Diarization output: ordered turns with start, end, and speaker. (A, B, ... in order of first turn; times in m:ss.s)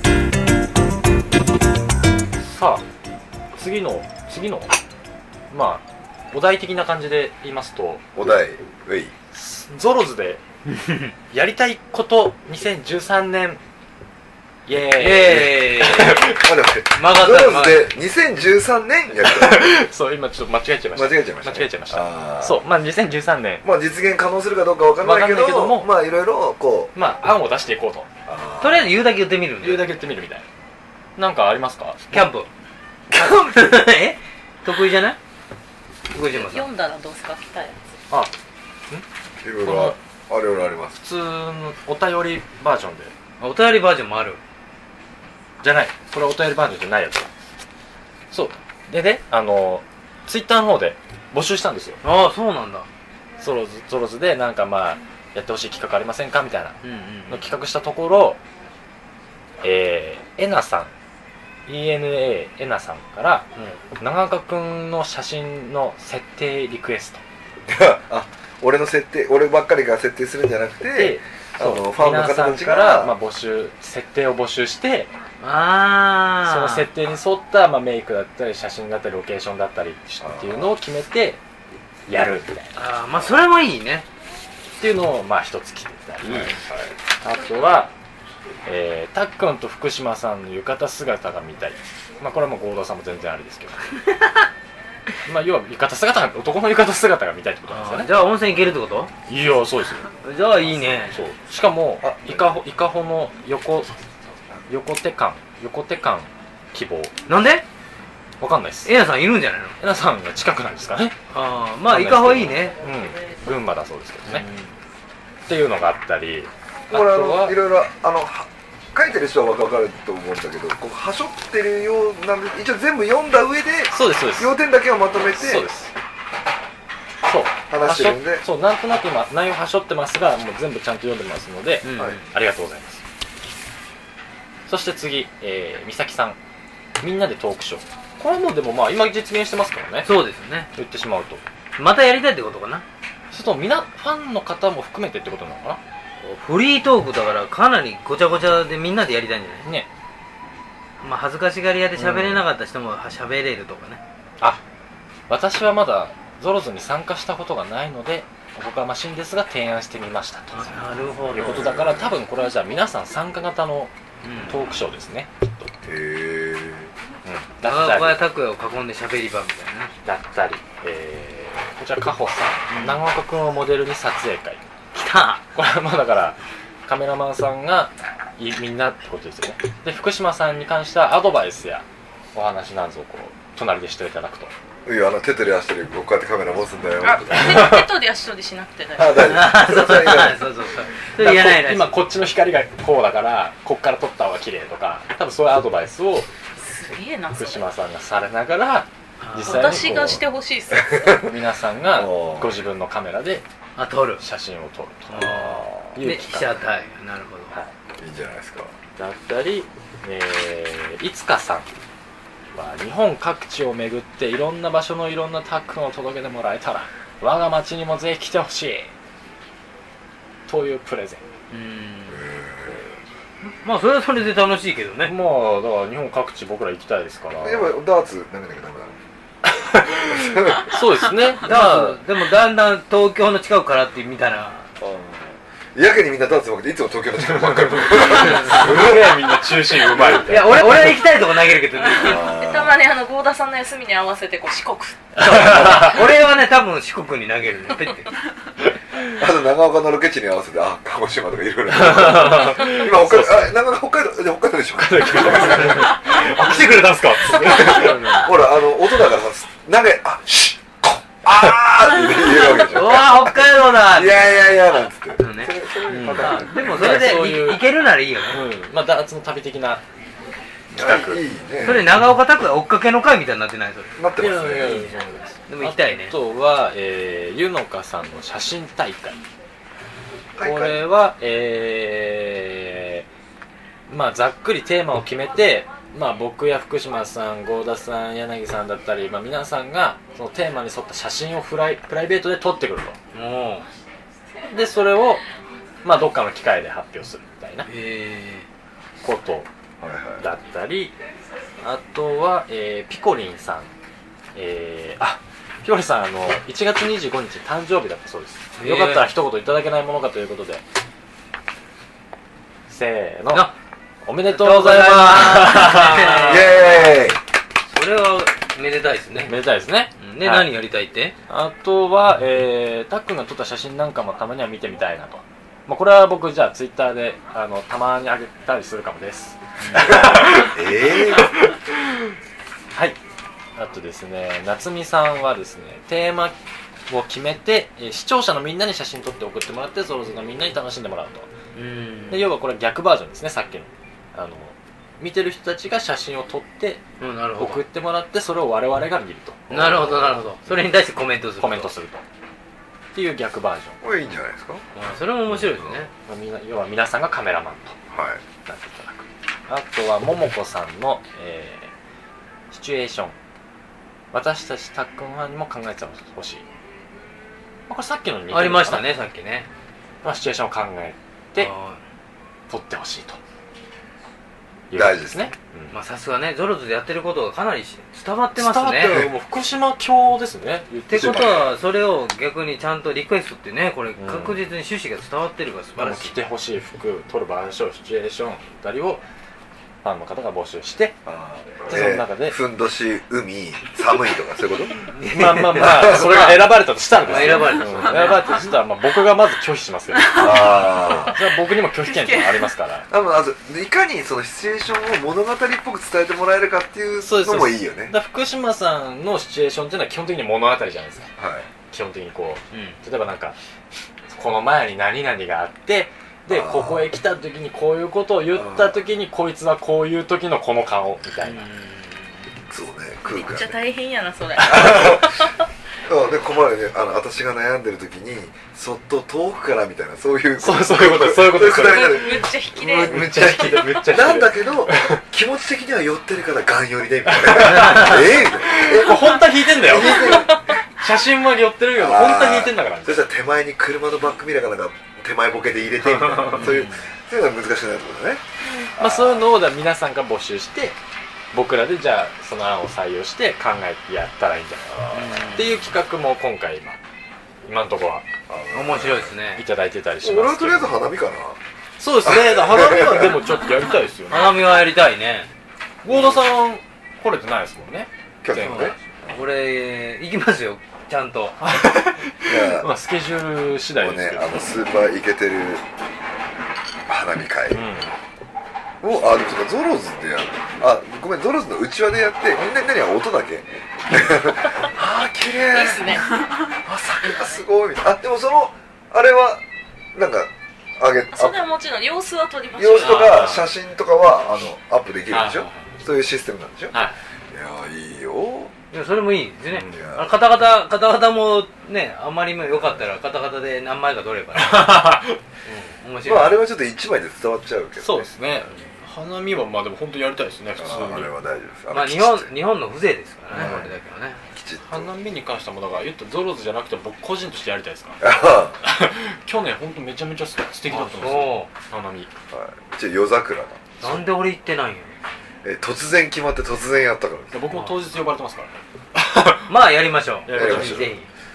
0:02.4-0:02.8 A
0:03.5-0:04.7 A
0:05.5-0:08.1 A
0:08.2-0:09.1 B
0:09.3-0:10.4 A
0:10.8-0:11.1 C
0:11.3-0:13.6 A
0:14.7-0:16.5 A
0:14.9-0:16.2 C
0:16.4-0:19.8 B
0:16.9-0:17.9 C
0:19.2-0:23.6 A
0:20.9-0:22.6 B
0:23.6-0:26.9 B
0:25.0-0:25.9 A
0:26.9-0:28.1 A
0:28.2-0:28.9 B
0:28.6-0:29.8 C
0:29.6-0:30.5 A
0:31.2-0:32.3 A
0:32.1-0:32.5 C
0:33.1-0:35.2 C
0:36.1-0:36.6 C
0:36.2-0:37.8 D
0:39.4-0:41.0 B
0:39.6-0:40.0 A
0:41.0-0:43.1 A
0:43.4-0:44.4 C
0:45.6-0:47.3 A
0:48.3-0:52.0 A
0:52.0-0:52.9 C
0:53.4-0:56.8 A
0:56.8-0:57.5 C
0:57.3-0:58.4 A
0:59.6-1:00.9 A
1:01.7-1:07.2 A
1:07.6-1:13.1 B
1:10.9-1:15.1 A
1:15.4-1:16.9 C
1:16.4-1:21.4 A
1:20.2-1:20.7 B
1:22.1-1:22.7 A
1:22.7-1:24.0 C
1:24.8-1:26.5 A
1:26.3-1:26.9 B
1:27.2-1:27.9 A
1:28.6-1:33.9 A
1:35.2-1:38.1 A
1:37.7-1:39.1 C
1:39.3-1:40.1 A
1:40.2-1:41.2 C
1:40.6-1:43.9 A
1:42.0-1:42.6 B
1:44.7-1:47.1 A
1:47.3-1:47.6 C
1:48.4-1:48.9 A
1:48.8-1:49.8 C
1:49.8-1:51.2 A
1:51.3-1:52.8 C
1:51.9-1:54.4 A
1:54.2-1:54.7 C
1:55.5-1:57.6 A
1:56.9-2:05.7 B
2:03.9-2:04.5 A
2:05.3-2:05.9 A
2:07.2-2:13.0 A
2:07.7-2:08.4 B
2:11.8-2:12.2 C
2:14.7-2:16.4 A
2:17.0-2:20.1 A
2:20.0-2:20.7 C
2:20.7-2:21.4 A
2:21.8-2:22.8 C
2:23.3-2:25.8 A
2:26.2-2:29.6 C
2:31.0-2:34.0 C
2:31.9-2:32.4 A
2:35.3-2:40.7 A
2:40.5-2:41.6 C
2:41.3-2:43.9 A
2:41.4-2:42.2 B
2:44.2-2:44.6 C
2:44.5-2:45.7 A
2:45.8-2:46.9 B
2:47.2-2:48.2 A
2:47.6-2:49.9 C
2:50.0-2:54.6 A
2:52.7-2:53.0 C
2:54.9-2:55.4 C
2:55.5-3:04.5 A
3:04.8-3:07.7 B
3:07.0-3:09.2 D
3:07.3-3:07.8 A
3:09.0-3:10.4 B
3:09.2-3:12.0 C
3:11.2-3:16.3 A
3:16.6-3:17.7 D
3:17.3-3:20.2 A
3:19.2-3:20.0 C
3:19.4-3:21.2 D
3:20.7-3:21.3 B
3:21.2-3:23.4 A
3:21.9-3:22.5 B
3:23.8-3:24.2 C
3:24.2-3:26.6 A
3:25.1-3:27.5 C
3:25.3-3:26.0 B
3:28.0-3:28.7 B
3:29.0-3:31.7 A
3:32.5-3:38.9 A
3:40.5-3:41.2 A
3:41.5-3:42.2 C
3:42.1-3:42.9 B
3:43.6-3:45.1 C
3:45.0-3:47.7 A
3:47.4-3:49.0 B
3:49.6-3:52.0 A
3:50.1-3:50.7 B
3:51.4-3:54.7 C
3:54.8-3:59.2 B
3:57.2-4:01.0 A
3:58.1-3:58.7 C
3:59.9-4:02.2 C
4:00.4-4:00.9 D
4:01.8-4:05.9 D
4:02.0-4:02.8 B
4:05.2-4:08.1 C
4:05.2-4:05.9 A
4:09.1-4:16.3 B
4:11.7-4:13.6 A
4:14.8-4:18.4 A
4:17.2-4:26.9 B
4:22.7-4:25.5 C
4:25.9-4:27.6 A
4:26.1-4:28.4 C
4:28.2-4:29.8 A
4:30.7-4:31.2 A
4:30.7-4:31.9 B
4:31.6-4:34.0 C
4:34.0-4:34.8 B
4:34.2-4:39.2 A
4:34.5-4:34.9 C
4:35.5-4:36.1 C
4:40.4-4:40.8 B
4:40.4-4:43.1 A
4:43.9-4:53.0 A
4:53.1-4:53.7 C
4:54.4-4:55.2 A
4:55.8-4:57.7 A
4:57.6-4:58.5 C
4:59.0-4:59.5 A
4:59.8-5:00.2 B
5:00.2-5:00.9 A
5:01.6-5:03.7 A
5:04.3-5:10.6 A
5:08.6-5:09.1 C
5:12.7-5:13.5 A
5:14.0-5:16.5 A
5:14.2-5:16.9 C
5:16.2-5:17.2 B
5:17.7-5:19.3 C
5:19.2-5:20.5 A
5:20.0-5:21.1 C
5:21.3-5:31.6 A
5:29.6-5:30.0 C
5:29.9-5:31.3 B
5:33.6-5:36.3 A
5:36.9-5:41.3 A
5:41.5-5:42.3 C
5:42.1-5:46.8 A
5:47.0-5:47.6 C
5:47.4-5:50.6 A
5:49.5-5:51.7 C
5:51.4-5:52.0 A
5:52.9-5:53.8 A
5:53.8-5:54.6 B
5:54.8-5:55.9 C
5:55.6-5:57.8 A
5:57.9-5:58.2 B
5:58.4-6:01.7 A
6:02.5-6:03.2 A
6:04.1-6:06.4 A
6:07.7-6:08.9 A
6:08.3-6:09.5 C
6:10.0-6:11.5 A
6:11.4-6:11.8 C
6:12.5-6:13.2 A
6:14.7-6:15.8 A
6:14.7-6:15.3 B
6:15.7-6:19.0 C
6:18.3-6:21.5 A
6:20.9-6:26.2 C
6:20.9-6:21.4 B
6:24.0-6:24.4 A
6:25.8-6:29.0 A
6:29.8-6:31.0 A
6:31.0-6:34.8 B
6:31.6-6:32.4 A
6:34.9-6:36.4 C
6:35.1-6:42.9 A
6:35.6-6:36.2 B
6:37.0-6:38.5 C
6:37.1-6:37.6 B
6:40.1-6:41.2 B
6:42.9-6:47.9 B
6:47.0-6:51.1 A
6:51.2-6:51.5 B
6:51.7-6:53.4 A
6:52.5-6:52.8 C
6:54.1-7:01.4 A
6:56.3-6:56.9 B
6:58.4-6:58.7 B
7:01.2-7:02.3 C
7:02.5-7:03.6 B
7:03.0-7:05.5 D
7:04.4-7:05.3 B
7:05.8-7:20.4 B
7:10.4-7:15.0 A
7:11.6-7:13.3 D
7:17.0-7:23.1 A
7:17.5-7:18.0 C
7:20.1-7:20.4 D
7:21.8-7:28.2 B
7:26.0-7:26.5 A
7:26.3-7:26.8 C
7:28.6-7:30.8 A
7:28.8-7:29.3 B
7:31.3-7:36.8 A
7:34.9-7:35.7 C
7:37.4-7:38.0 A
7:38.3-7:39.1 B
7:38.5-7:39.4 C
7:39.3-7:40.8 A
7:40.0-7:41.4 B
7:41.8-7:44.4 A
7:42.0-7:43.2 B
7:44.1-7:45.3 C
7:45.8-7:48.9 A
7:45.9-7:46.2 B
7:48.2-7:48.8 B
7:48.4-7:51.4 C
7:51.4-7:54.5 A
7:52.2-7:52.7 B
7:53.8-7:55.6 B
7:56.9-7:57.6 B
7:57.5-7:57.9 A
7:58.8-8:09.4 B
8:05.5-8:06.1 D
8:07.0-8:07.4 D
8:09.9-8:11.5 B
8:11.1-8:13.2 D
8:12.6-8:18.5 B
8:12.8-8:13.5 A
8:15.1-8:15.8 A
8:16.7-8:17.0 A
8:18.7-8:24.9 C
8:19.5-8:19.9 A
8:19.7-8:20.1 B
8:24.4-8:25.2 A
8:25.4-8:26.4 C
8:26.0-8:28.1 B
8:27.8-8:31.1 A
8:30.6-8:32.3 B
8:31.7-8:34.2 C
8:33.3-8:33.7 A
8:33.4-8:33.7 B
8:34.3-8:34.9 B
8:34.6-8:38.0 A
8:38.0-8:38.6 B
8:38.6-8:42.1 A
8:40.7-8:41.5 C
8:42.3-8:43.8 B
8:43.8-8:45.0 C
8:45.4-8:47.4 B
8:47.3-8:49.5 A
8:49.4-8:51.1 C
8:50.2-8:51.0 A
8:50.4-8:51.0 B